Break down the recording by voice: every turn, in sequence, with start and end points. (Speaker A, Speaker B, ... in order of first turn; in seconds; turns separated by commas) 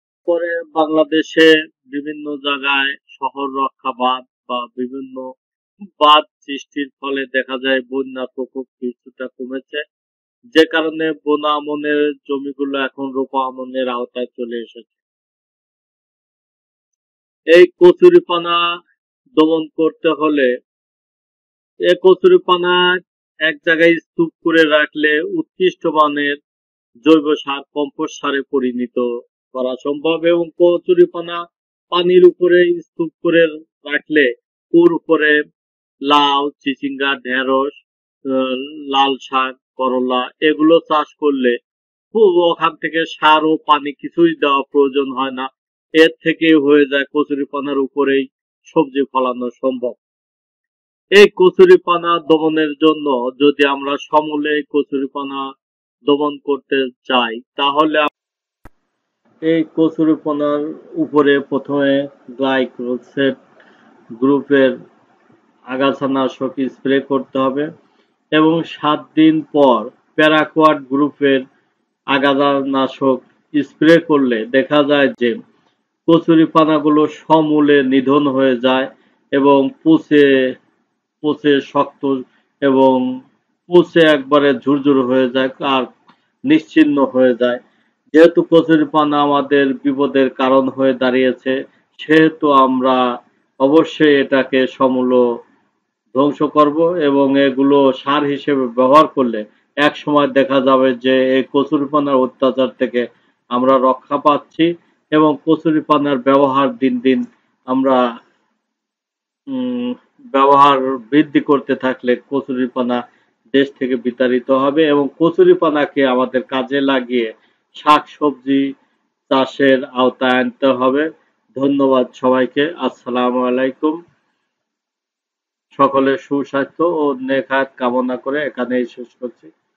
Speaker A: 0.3-5.3, Speaker A: 6.0-9.8, Speaker A: 10.6-15.0, Speaker A: 17.6-18.6, Speaker A: 19.4-20.5, Speaker A: 21.9-22.8, Speaker A: 23.5-26.4, Speaker A: 27.1-31.4, Speaker A: 31.9-35.4, Speaker A: 36.1-41.5, Speaker A: 42.1-45.5, Speaker A: 46.0-50.0, Speaker A: 51.2-55.4, Speaker A: 56.1-58.1, Speaker A: 59.5-63.3, Speaker A: 64.2-64.8, Speaker A: 65.7-67.7, Speaker A: 68.4-71.4, Speaker A: 72.1-75.3, Speaker A: 76.1-80.2, Speaker A: 81.2-83.0, Speaker A: 83.7-85.9, Speaker A: 86.5-87.6, Speaker A: 88.1-93.0, Speaker A: 93.6-95.2, Speaker A: 96.2-103.0, Speaker A: 103.5-108.0, Speaker A: 109.5-113.0, Speaker A: 113.5-118.6, Speaker A: 119.3-121.0, Speaker A: 121.6-124.0, Speaker A: 125.7-129.5